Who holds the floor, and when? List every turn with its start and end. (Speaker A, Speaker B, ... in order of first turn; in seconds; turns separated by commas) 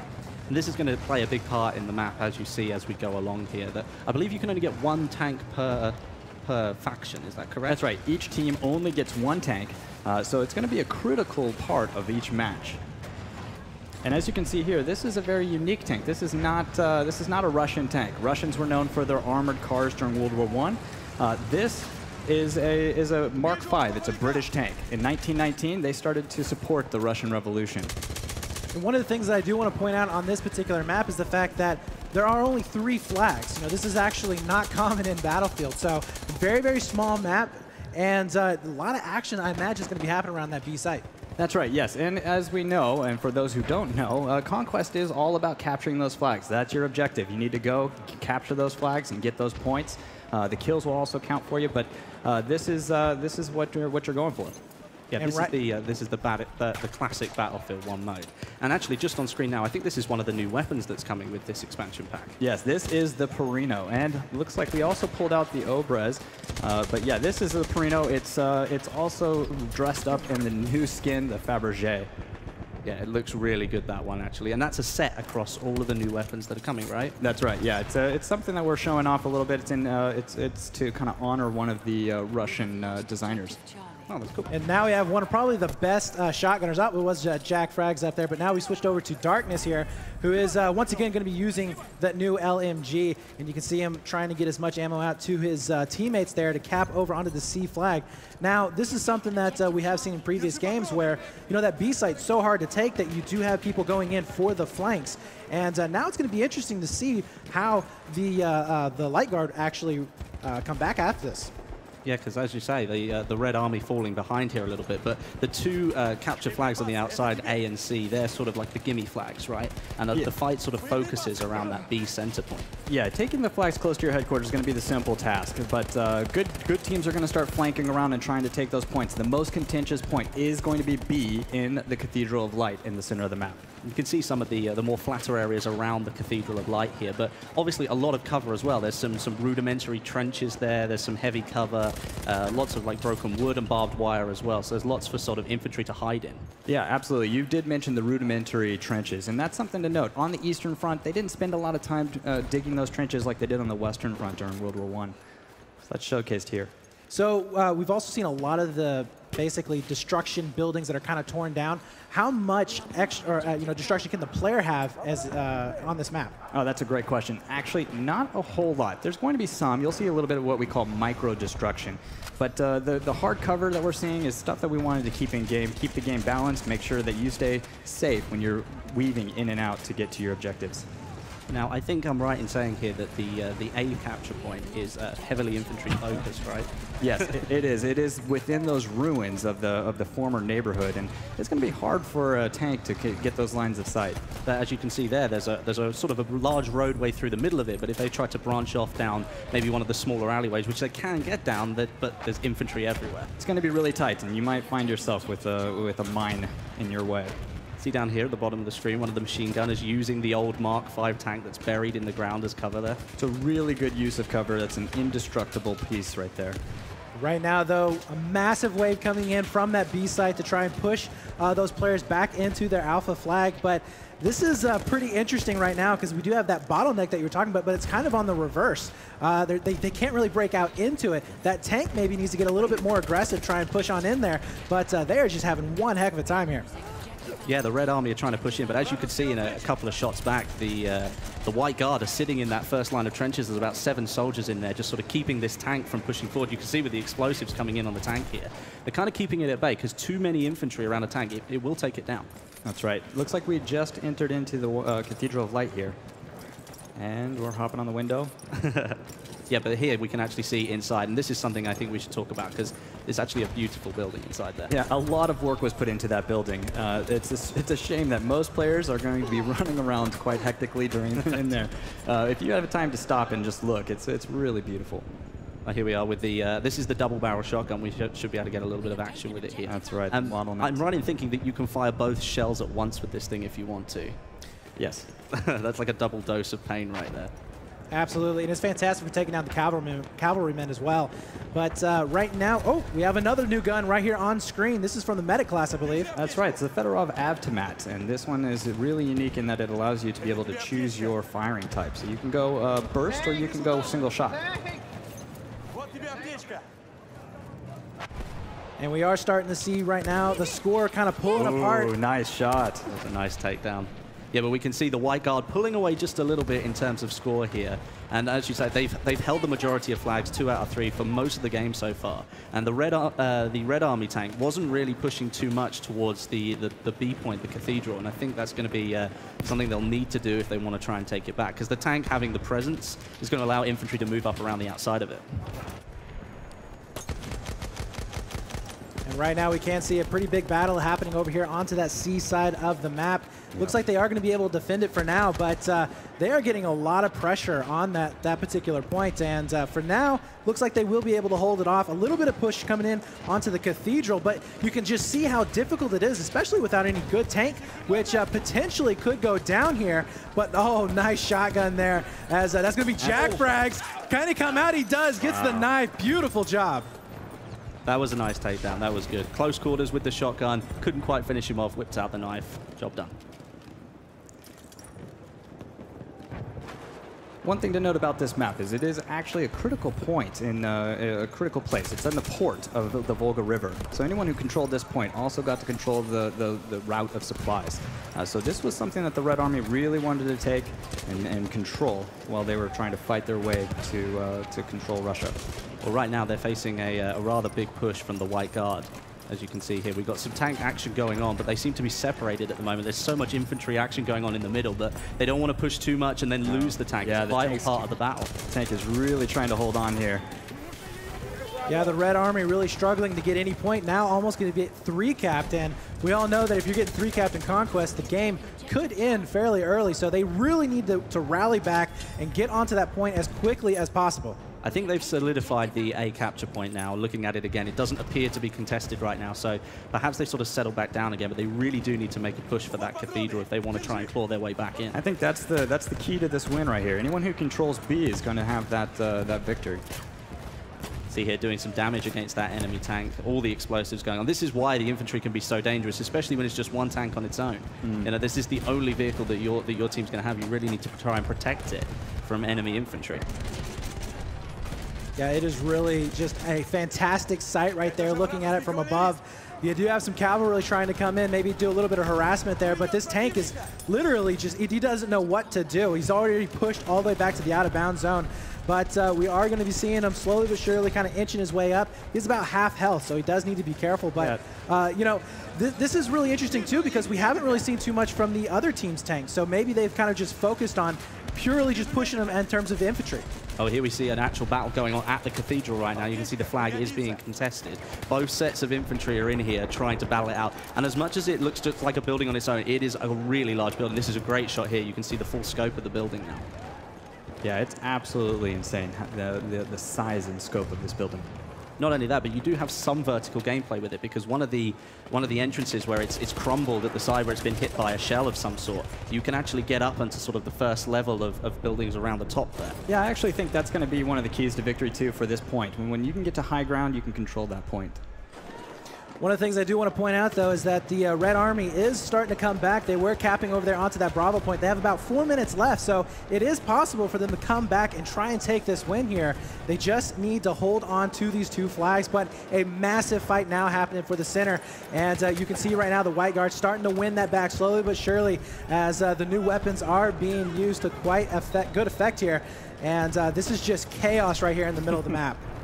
Speaker A: 0.5-7.8, Speaker B: 7.7-12.8, Speaker B: 14.0-27.9, Speaker C: 28.7-41.0, Speaker B: 41.4-54.6, Speaker A: 55.1-62.4, Speaker C: 55.2-55.5, Speaker B: 62.4-72.1, Speaker A: 72.8-77.2, Speaker B: 77.2-83.6, Speaker A: 84.1-84.5, Speaker C: 84.5-111.5, Speaker A: 112.0-122.7, Speaker B: 122.9-133.6, Speaker A: 133.8-146.5, Speaker B: 146.7-155.2, Speaker B: 155.8-156.7, Speaker C: 157.1-166.3, Speaker B: 166.5-180.9, Speaker A: 181.5-186.7, Speaker B: 187.0-194.2, Speaker A: 194.4-203.3, Speaker B: 203.4-207.3, Speaker A: 207.8-213.0, Speaker B: 213.2-216.6, Speaker C: 217.1-236.7, Speaker A: 237.4-252.3, Speaker B: 252.6-256.0, Speaker B: 256.9-258.3, Speaker A: 258.5-264.7, Speaker B: 264.7-275.1, Speaker A: 275.6-284.2, Speaker B: 279.6-280.9, Speaker B: 284.8-285.1, Speaker A: 285.3-287.3, Speaker C: 287.9-296.1, Speaker B: 296.1-304.5, Speaker C: 308.8-311.9, Speaker B: 311.4-312.8, Speaker A: 312.9-335.2, Speaker C: 339.1-366.9, Speaker B: 343.5-343.8, Speaker B: 363.0-363.4, Speaker B: 365.3-365.6, Speaker A: 367.9-373.1, Speaker B: 377.4-395.4, Speaker A: 395.8-408.3, Speaker B: 406.4-407.9, Speaker B: 408.5-410.2, Speaker C: 411.7-424.4, Speaker A: 424.6-435.0, Speaker B: 434.9-439.8, Speaker A: 441.1-453.2, Speaker B: 447.8-448.1, Speaker C: 455.2-483.2, Speaker A: 483.6-496.5, Speaker B: 497.4-501.3, Speaker A: 501.8-512.8, Speaker B: 512.9-518.0, Speaker C: 519.2-545.4